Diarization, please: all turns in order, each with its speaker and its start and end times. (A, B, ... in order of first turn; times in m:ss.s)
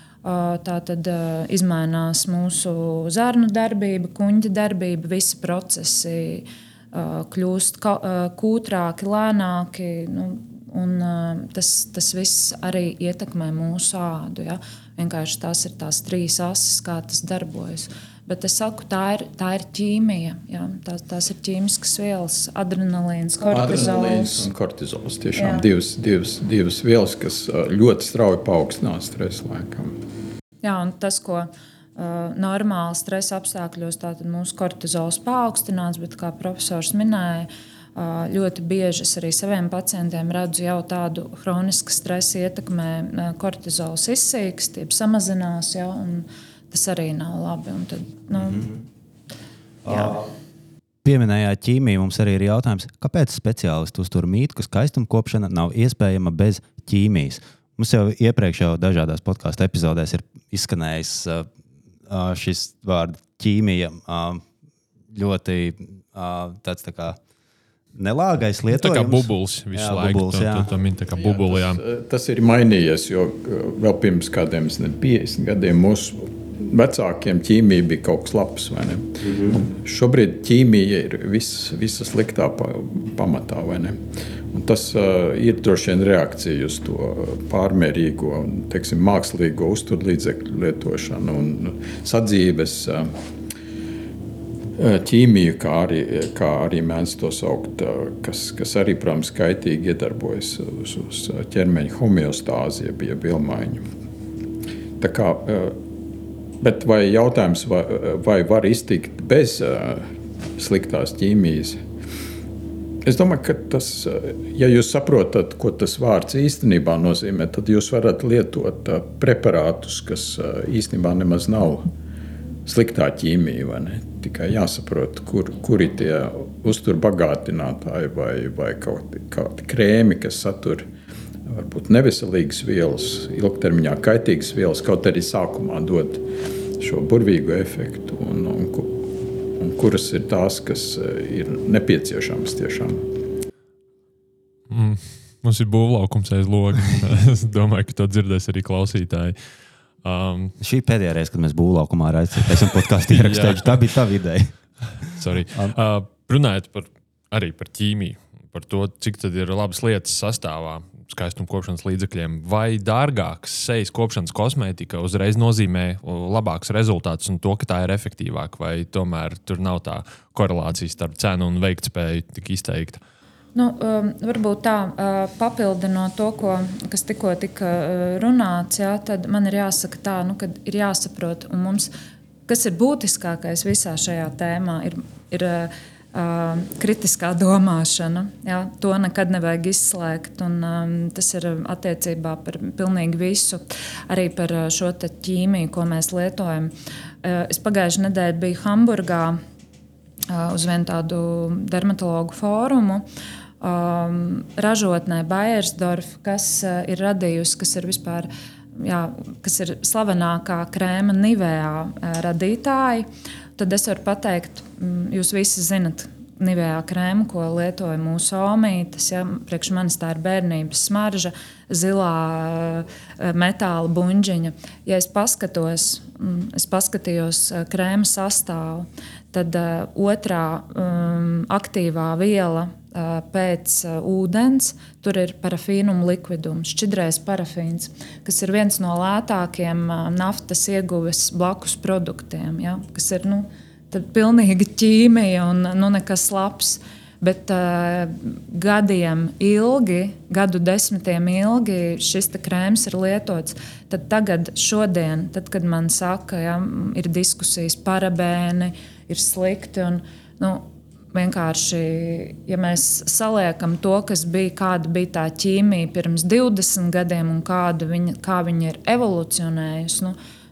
0:00.2-0:24.4 A
0:23.5-0:30.0 B
0:25.4-0:25.6 A
0:30.6-0:48.7 A
0:49.8-0:50.2 C
0:49.9-0:50.2 A
0:51.0-1:01.5 C
1:02.1-1:04.4 C
1:05.1-1:07.2 C
1:07.9-1:10.7 C
1:08.7-1:11.8 D
1:11.2-1:24.0 B
1:24.5-1:33.1 B
1:34.8-1:43.8 B
1:45.0-1:45.8 B
1:46.6-1:50.0 B
1:50.6-1:51.8 B
1:53.0-2:01.9 B
2:02.6-2:10.8 B
2:11.4-2:16.2 B
2:16.8-2:23.0 B
2:24.7-2:29.4 D
2:30.0-2:30.5 D
2:30.6-2:34.5 C
2:33.1-2:33.8 D
2:35.0-2:53.0 D
2:53.5-3:01.9 A
3:02.5-3:19.4 A
3:20.3-3:23.0 A
3:23.6-3:33.0 A
3:33.6-4:30.2 A